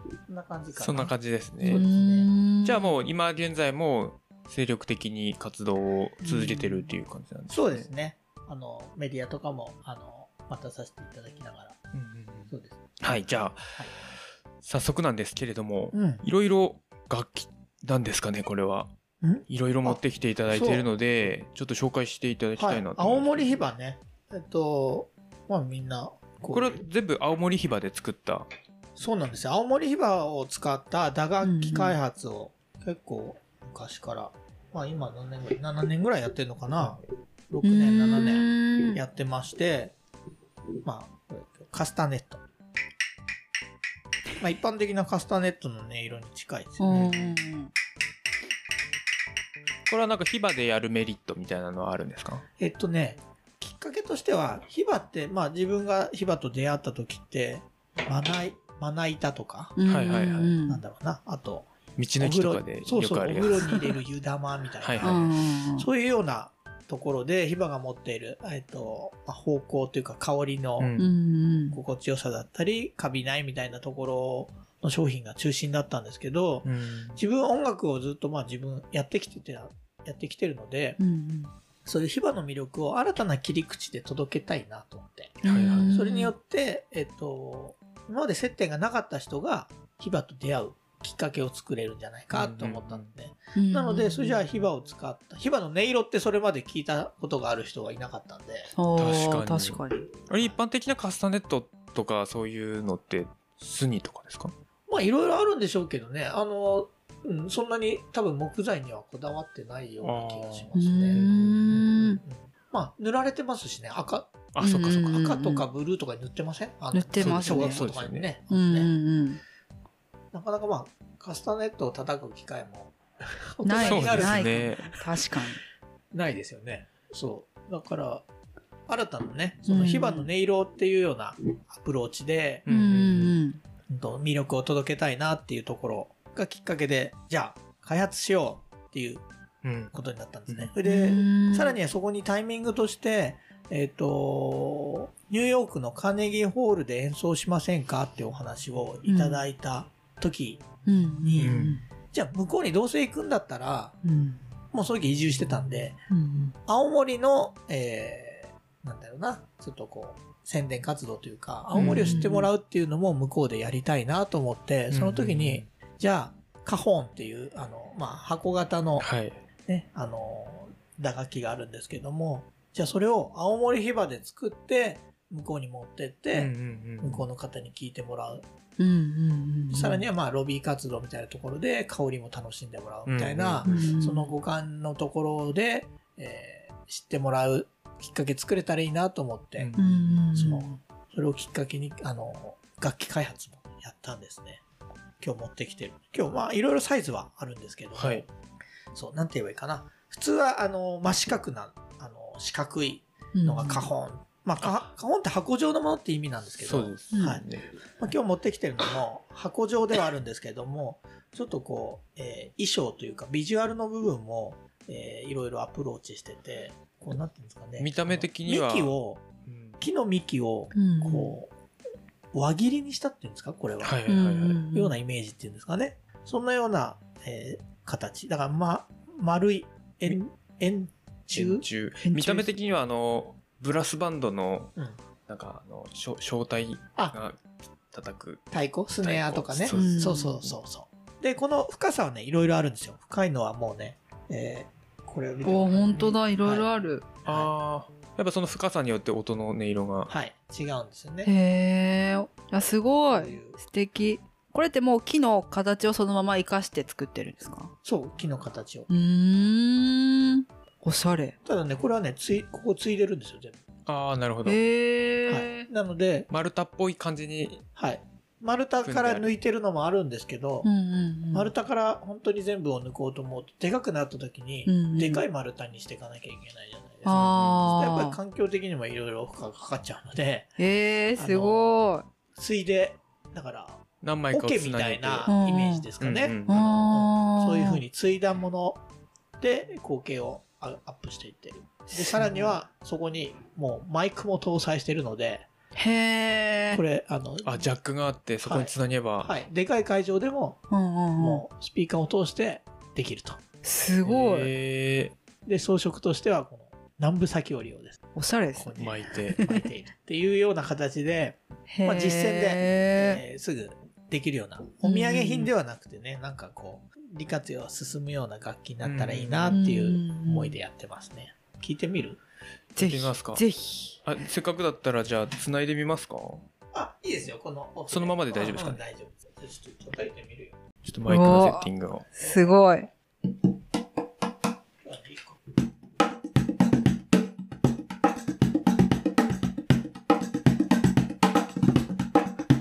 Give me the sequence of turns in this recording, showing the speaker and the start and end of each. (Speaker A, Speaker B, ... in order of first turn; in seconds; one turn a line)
Speaker A: 0.3-2.3
Speaker B: 0.8-1.9
Speaker C: 1.6-2.9
Speaker B: 2.6-7.9
Speaker C: 6.2-6.9
Speaker A: 7.5-11.8
Speaker B: 11.9-14.1
Speaker A: 12.5-13.9
Speaker B: 14.6-18.9
Speaker A: 15.9-16.2
Speaker A: 19.2-20.0
Speaker B: 19.5-23.6
Speaker A: 20.5-20.9
Speaker A: 22.6-26.8
Speaker B: 26.5-28.5
Speaker A: 29.0-39.9
Speaker C: 31.4-32.0
Speaker C: 37.6-39.0
Speaker A: 40.8-42.4
Speaker A: 44.4-47.2
Speaker C: 46.8-47.7
Speaker B: 49.9-52.4
Speaker A: 52.6-59.8
Speaker C: 59.8-60.8
Speaker B: 59.9-60.6
Speaker A: 60.7-70.9
Speaker B: 62.0-63.9
Speaker B: 64.8-65.1
Speaker C: 65.0-65.9
Speaker B: 70.8-71.1
Speaker C: 71.0-71.8
Speaker A: 71.7-81.0
Speaker B: 76.6-77.2
Speaker C: 81.0-81.5
Speaker A: 81.8-98.7
Speaker C: 85.4-86.3
Speaker B: 85.4-85.9
Speaker B: 92.3-93.1
Speaker C: 93.5-94.4
Speaker C: 98.7-100.1
Speaker B: 99.0-104.5
Speaker A: 104.9-114.5
Speaker B: 110.0-111.8
Speaker C: 110.7-112.2
Speaker B: 114.5-115.2
Speaker C: 114.6-115.6
Speaker A: 115.0-118.9
Speaker C: 116.9-117.8
Speaker B: 117.2-118.3
Speaker C: 118.5-119.4
Speaker A: 120.3-124.7
Speaker C: 123.6-125.6
Speaker B: 123.8-125.0
Speaker A: 126.1-128.2
Speaker A: 128.9-132.7
Speaker C: 129.7-130.3
Speaker B: 132.7-133.3
Speaker C: 132.7-133.6
Speaker A: 133.9-139.2
Speaker B: 139.6-139.9
Speaker A: 139.9-150.7
Speaker C: 140.8-141.8
Speaker C: 149.1-149.4
Speaker C: 150.8-151.8
Speaker A: 151.2-153.9
Speaker B: 151.4-151.8
Speaker C: 154.0-154.4
Speaker A: 154.7-156.0
Speaker C: 156.1-156.5
Speaker A: 156.7-169.1
Speaker C: 161.7-162.5
Speaker B: 161.8-162.2
Speaker B: 164.9-165.7
Speaker B: 169.0-169.4
Speaker A: 169.7-178.4
Speaker B: 176.3-177.2
Speaker C: 178.8-180.1
Speaker A: 179.7-189.7
Speaker B: 183.1-183.9
Speaker C: 183.6-184.3
Speaker B: 189.6-190.2
Speaker C: 189.8-190.8
Speaker A: 190.3-194.6
Speaker A: 195.2-198.3
Speaker B: 197.9-198.3
Speaker A: 198.9-207.4
Speaker C: 203.3-203.9
Speaker B: 206.6-207.7
Speaker C: 207.1-207.4
Speaker A: 208.0-219.3
Speaker B: 217.8-219.8
Speaker A: 219.8-221.5
Speaker C: 220.7-221.3
Speaker A: 222.3-224.1
Speaker B: 223.8-224.7
Speaker C: 224.1-224.9
Speaker A: 224.6-231.6
Speaker B: 231.3-234.7
Speaker C: 232.0-232.5
Speaker B: 235.3-238.4
Speaker A: 238.5-246.7
Speaker B: 239.0-240.5
Speaker C: 239.7-240.4
Speaker C: 245.4-247.0
Speaker A: 247.2-247.5
Speaker B: 247.2-250.1
Speaker A: 250.1-251.3
Speaker C: 251.2-257.7
Speaker A: 253.1-253.6
Speaker A: 257.8-258.9
Speaker C: 258.9-261.4
Speaker A: 261.4-263.6
Speaker B: 263.9-264.6
Speaker C: 264.4-265.7
Speaker A: 265.3-266.3
Speaker B: 266.3-267.6
Speaker A: 267.8-270.7
Speaker B: 268.8-269.3
Speaker C: 270.6-271.5
Speaker A: 271.3-280.5
Speaker C: 274.6-275.2
Speaker C: 277.0-278.2
Speaker B: 277.1-277.9
Speaker C: 280.6-282.1
Speaker A: 281.2-281.8
Speaker A: 282.3-288.8
Speaker B: 284.0-285.3
Speaker C: 285.3-285.9
Speaker B: 286.0-286.9
Speaker C: 286.4-287.8
Speaker A: 289.4-295.5
Speaker C: 291.9-292.5
Speaker C: 295.8-296.8
Speaker A: 296.7-297.7
Speaker B: 297.4-299.4
Speaker A: 298.4-300.6
Speaker C: 300.7-301.4
Speaker A: 301.2-303.4
Speaker C: 303.6-304.5
Speaker B: 304.0-305.1
Speaker A: 305.4-308.0
Speaker C: 308.1-309.6
Speaker A: 308.6-322.2
Speaker B: 308.8-309.4
Speaker C: 311.7-313.2
Speaker C: 314.8-315.5
Speaker B: 318.8-319.6
Speaker C: 319.5-320.6
Speaker C: 322.8-324.0
Speaker B: 322.8-323.4
Speaker B: 324.0-326.4
Speaker A: 326.7-330.6
Speaker B: 327.9-328.8
Speaker B: 330.8-332.1
Speaker C: 331.1-332.9
Speaker A: 334.8-335.4